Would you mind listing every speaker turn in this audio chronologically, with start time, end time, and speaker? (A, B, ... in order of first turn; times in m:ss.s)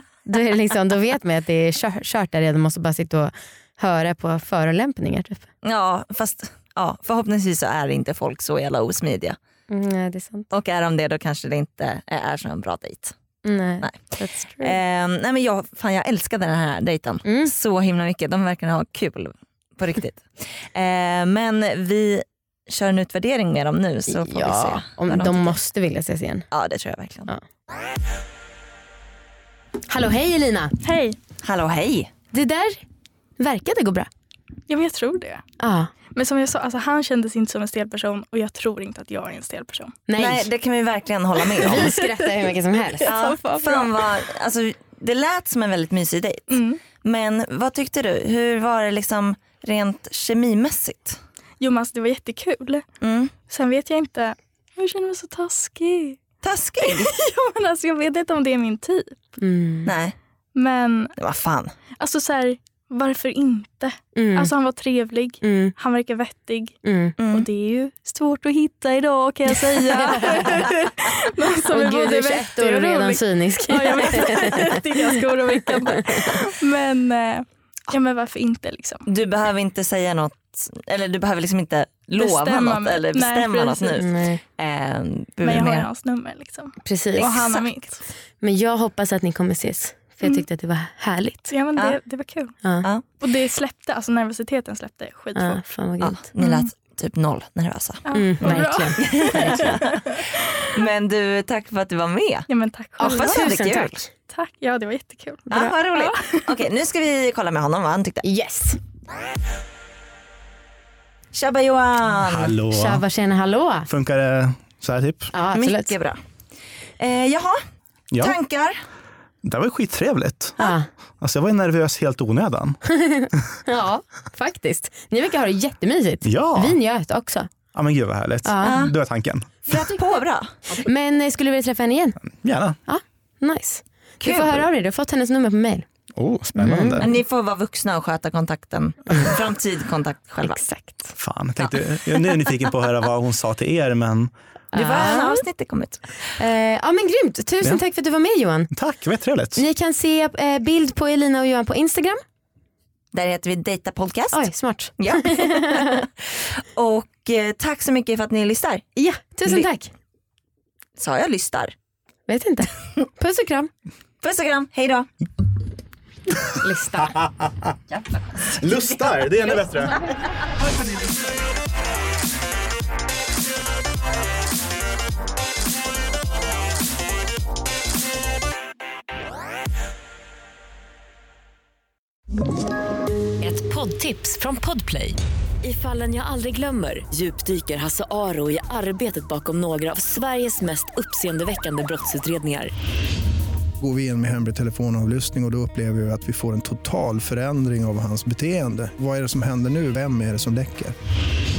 0:00.3-0:05.5 A
0:05.6-0:09.4 B
0:09.7-0:10.5 A
0:10.5-0:13.2 B
0:13.4-0:14.8 A
0:13.8-0:25.6 B
0:17.2-0:17.5 A
0:24.1-0:26.5 A
0:26.5-0:27.3 B
0:29.9-0:30.8 A
0:30.8-0:31.2 C
0:31.4-0:32.1 B
0:32.3-0:32.8 A
0:33.4-0:34.1 A
0:34.7-0:35.4 C
0:35.6-0:35.9 A
0:36.1-0:40.0 C
0:40.1-0:40.5 A
0:40.2-0:42.0 B
0:41.6-0:43.2 A
0:41.8-0:42.3 C
0:43.0-0:44.0 C
0:43.0-0:46.5 B
0:46.5-0:46.8 C
0:47.0-0:51.2 B
0:51.6-0:52.8 C
0:53.0-0:53.3 B
0:53.5-0:56.2 C
0:56.4-0:57.1 B
0:56.8-0:59.4 C
0:59.4-0:59.9 A
0:59.8-1:00.2 B
1:00.6-1:01.1 C
1:01.2-1:01.7 B
1:02.0-1:06.8 C
1:04.2-1:04.5 A
1:05.4-1:05.8 A
1:06.8-1:07.2 A
1:07.2-1:07.5 B
1:07.3-1:19.0 C
1:09.9-1:10.7 A
1:11.7-1:15.0 A
1:15.6-1:16.3 A
1:19.1-1:25.9 B
1:22.2-1:24.1 C
1:24.0-1:24.4 A
1:25.4-1:28.0 C
1:26.8-1:27.6 A
1:28.4-1:31.5 A
1:31.5-1:32.5 C
1:32.6-1:32.9 A
1:33.2-1:35.6 C
1:35.4-1:36.6 A
1:36.0-1:42.5 B
1:38.1-1:40.3 C
1:38.1-1:39.8 A
1:42.5-1:43.4 C
1:43.0-1:44.1 A
1:43.0-1:44.0 B
1:44.3-1:46.5 C
1:45.5-1:48.2 B
1:48.2-1:48.8 A
1:51.3-1:52.5 B
1:52.2-1:53.0 D
1:52.7-1:53.9 A
1:53.9-1:55.3 D
1:55.3-1:55.9 A
1:55.5-1:56.2 B
1:57.0-1:57.6 B
1:58.2-1:58.8 B
1:59.4-2:00.6 D
2:00.6-2:00.9 A
2:01.2-2:02.8 D
2:02.9-2:07.5 A
2:06.2-2:06.8 D
2:07.7-2:09.5 D
2:08.4-2:08.8 A
2:08.6-2:08.9 B
2:09.7-2:10.6 B
2:09.7-2:10.0 A
2:10.7-2:12.2 A
2:12.2-2:12.8 D
2:12.9-2:15.9 A
2:14.2-2:14.7 B
2:16.2-2:17.1 D
2:16.6-2:17.1 A
2:17.0-2:20.6 B
2:20.4-2:21.1 A
2:21.2-2:24.3 D
2:24.7-2:25.5 A
2:24.7-2:26.1 B
2:26.4-2:28.7 A
2:28.7-2:29.6 D
2:29.6-2:32.2 A
2:33.1-2:34.5 B
2:34.3-2:36.1 A
2:35.0-2:38.9 B
2:39.0-2:39.9 A
2:41.0-2:41.7 B
2:42.3-2:43.7 A
2:44.2-2:45.1 B
2:46.6-2:47.2 A
2:47.0-2:47.8 D
2:47.9-2:48.4 B
2:48.5-2:50.0 D
3:03.4-3:12.7 E
3:13.8-3:21.0 F